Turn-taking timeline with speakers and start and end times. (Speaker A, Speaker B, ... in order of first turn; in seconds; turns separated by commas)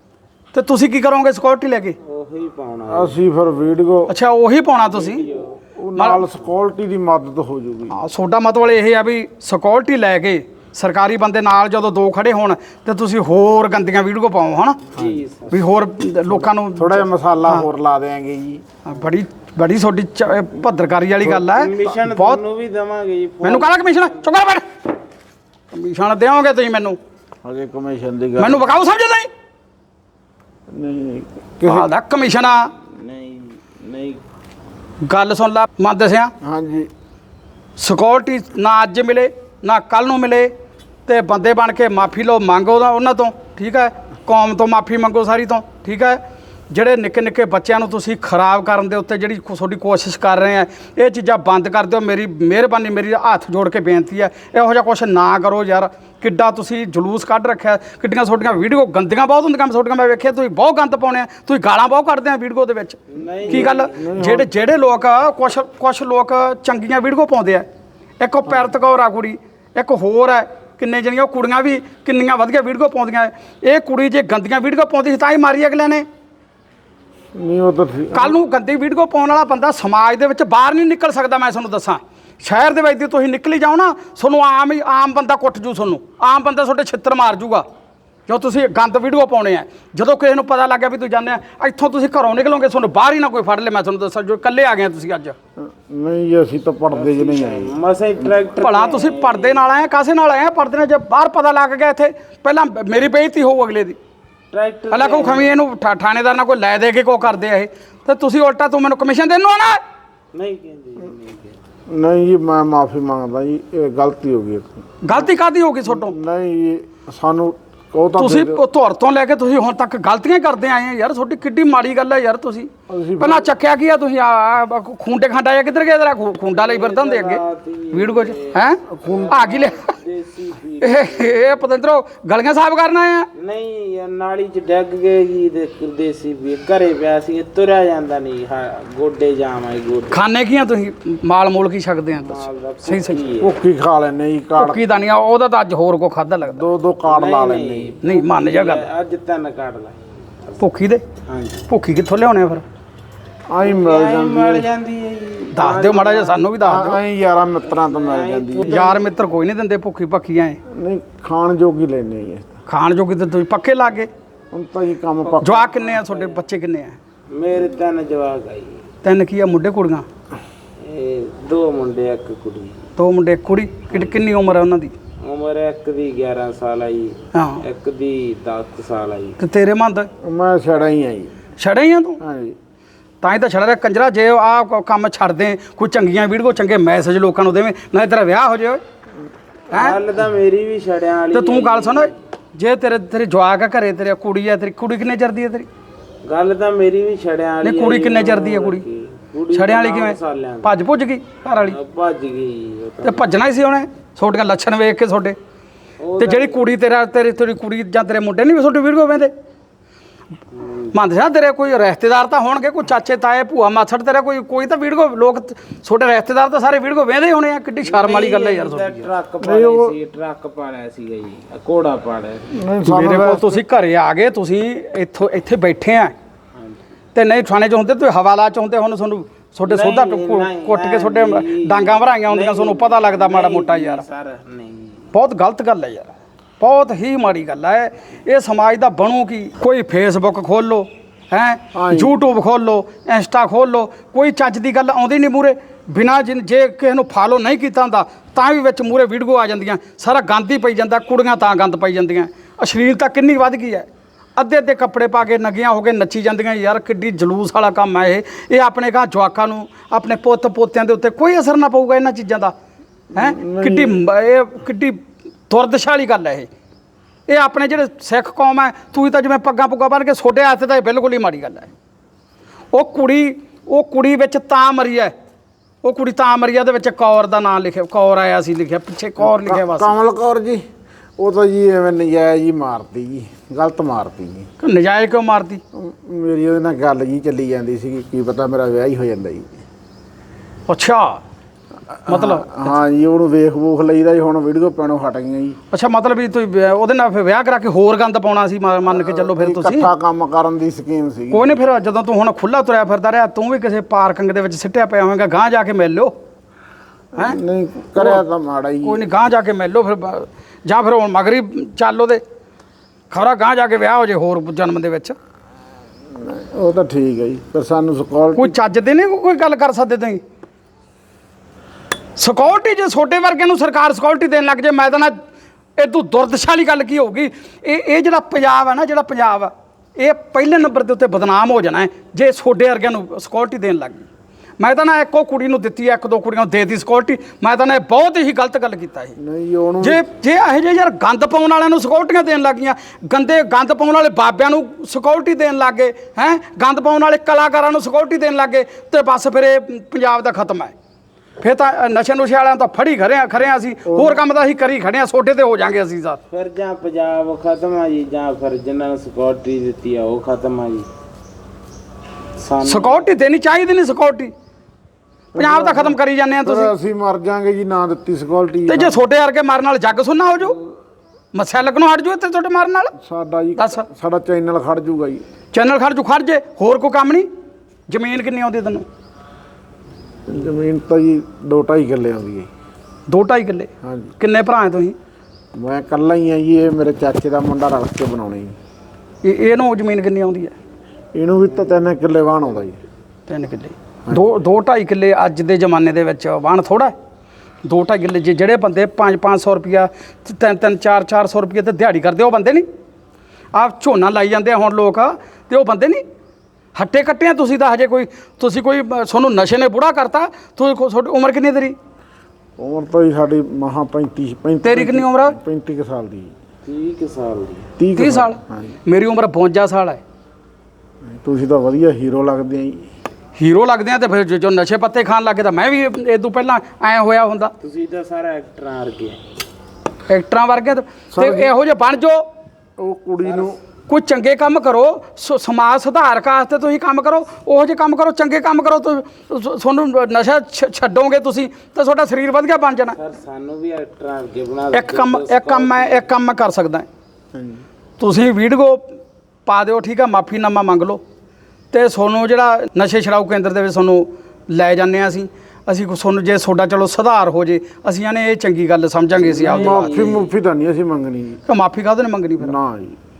Speaker A: 0.5-1.9, Speaker B: 2.0-3.1, Speaker C: 2.9-4.1, Speaker A: 4.1-5.2, Speaker B: 4.9-5.6, Speaker C: 5.8-7.9, Speaker A: 6.0-6.2, Speaker A: 7.9-14.8, Speaker B: 14.9-15.7, Speaker A: 15.5-17.7, Speaker C: 16.8-18.6, Speaker A: 18.9-22.4, Speaker B: 21.2-24.3, Speaker A: 23.4-24.6, Speaker A: 25.7-27.0, Speaker C: 27.4-28.6, Speaker A: 28.4-29.3, Speaker C: 30.7-31.9, Speaker A: 31.6-32.7, Speaker B: 32.7-34.2, Speaker A: 35.0-36.3, Speaker C: 36.4-36.9, Speaker A: 37.8-40.5, Speaker A: 41.0-67.7, Speaker B: 63.1-64.0, Speaker C: 63.5-64.5, Speaker A: 68.2-76.0, Speaker C: 77.3-78.4, Speaker A: 78.1-87.6, Speaker A: 88.3-95.3, Speaker C: 95.6-97.7, Speaker B: 96.9-99.6, Speaker A: 98.6-104.0, Speaker B: 104.5-105.5, Speaker A: 104.9-109.8, Speaker B: 110.3-111.6, Speaker C: 111.9-115.3, Speaker A: 115.0-116.2, Speaker C: 115.9-118.6, Speaker A: 118.2-129.9, Speaker C: 122.9-123.5, Speaker B: 126.4-131.6, Speaker C: 128.9-129.5, Speaker A: 130.8-133.3, Speaker B: 133.3-140.2, Speaker A: 140.1-143.2, Speaker B: 142.2-143.5, Speaker C: 143.4-144.8, Speaker A: 144.6-146.7, Speaker C: 146.4-148.0, Speaker B: 147.0-150.6, Speaker A: 148.0-148.8, Speaker A: 150.6-151.0, Speaker B: 151.2-151.7, Speaker A: 151.7-152.6, Speaker C: 153.5-154.7, Speaker B: 153.6-156.5, Speaker A: 155.5-157.0, Speaker C: 156.6-159.0, Speaker B: 157.7-158.9, Speaker A: 158.6-160.6, Speaker C: 160.7-162.5, Speaker A: 162.7-164.1, Speaker C: 164.5-165.7, Speaker A: 165.4-167.0, Speaker B: 165.7-166.4, Speaker B: 167.3-168.8, Speaker A: 169.0-170.0, Speaker B: 170.8-172.8, Speaker A: 173.0-174.9, Speaker B: 175.2-179.4, Speaker A: 177.3-177.6, Speaker A: 179.4-180.1, Speaker C: 180.2-181.3, Speaker A: 181.6-182.2, Speaker C: 182.2-182.6, Speaker A: 183.2-188.8, Speaker A: 189.7-190.0, Speaker B: 189.7-192.1, Speaker A: 191.3-195.7, Speaker B: 196.2-200.8, Speaker A: 197.6-198.8, Speaker A: 199.5-201.8, Speaker B: 201.5-203.4, Speaker A: 203.0-205.3, Speaker B: 206.0-206.6, Speaker A: 206.2-209.3, Speaker B: 210.5-210.9, Speaker A: 210.9-219.1, Speaker B: 217.8-222.5, Speaker C: 219.4-219.9, Speaker C: 222.5-223.6, Speaker A: 222.8-226.1, Speaker A: 227.1-234.0, Speaker B: 229.7-235.1, Speaker A: 235.1-262.5, Speaker C: 241.7-242.2, Speaker C: 263.1-264.0, Speaker A: 263.1-266.5, Speaker A: 267.3-271.7, Speaker A: 272.7-275.1, Speaker A: 275.8-279.9, Speaker C: 279.2-280.6, Speaker C: 281.2-284.5, Speaker A: 284.6-285.6, Speaker C: 285.7-289.5, Speaker A: 290.7-291.2, Speaker C: 291.9-295.6, Speaker A: 292.1-292.7, Speaker A: 295.7-299.9, Speaker C: 298.9-301.5, Speaker A: 301.3-306.1, Speaker C: 307.1-309.0, Speaker A: 307.9-308.2, Speaker A: 308.8-312.2, Speaker A: 313.1-315.1, Speaker C: 316.1-318.5, Speaker A: 318.3-320.2, Speaker A: 322.1-325.1, Speaker A: 325.8-334.1, Speaker A: 334.6-339.1, Speaker C: 339.2-340.0, Speaker A: 339.8-350.7, Speaker A: 351.4-356.2, Speaker C: 353.8-354.2, Speaker B: 356.3-360.9, Speaker B: 362.4-363.1, Speaker A: 362.6-364.3, Speaker C: 365.3-369.0, Speaker A: 365.4-366.7, Speaker A: 368.7-370.6, Speaker A: 371.3-372.9, Speaker C: 373.0-375.2, Speaker A: 373.6-373.9, Speaker A: 375.5-377.3, Speaker A: 377.9-378.8, Speaker C: 380.2-382.5, Speaker A: 383.1-384.9, Speaker C: 383.8-384.1, Speaker C: 385.5-388.5, Speaker A: 389.2-390.5, Speaker C: 391.1-392.8, Speaker A: 393.3-396.9, Speaker A: 397.6-402.6, Speaker A: 403.5-406.0, Speaker A: 406.7-411.7, Speaker C: 412.6-416.3, Speaker A: 414.6-415.4, Speaker B: 416.6-417.7, Speaker C: 417.8-418.8, Speaker A: 417.9-420.0, Speaker C: 421.1-422.9, Speaker A: 423.4-427.5, Speaker B: 427.6-429.2, Speaker A: 430.1-432.2, Speaker C: 431.1-431.5, Speaker C: 432.8-433.6, Speaker A: 433.9-443.0, Speaker B: 442.9-446.0, Speaker A: 444.7-446.9, Speaker C: 447.3-447.6, Speaker A: 448.0-448.9, Speaker A: 449.4-451.0, Speaker A: 451.7-459.9, Speaker C: 459.2-461.4, Speaker B: 459.4-460.3, Speaker A: 461.5-462.6, Speaker C: 462.4-463.0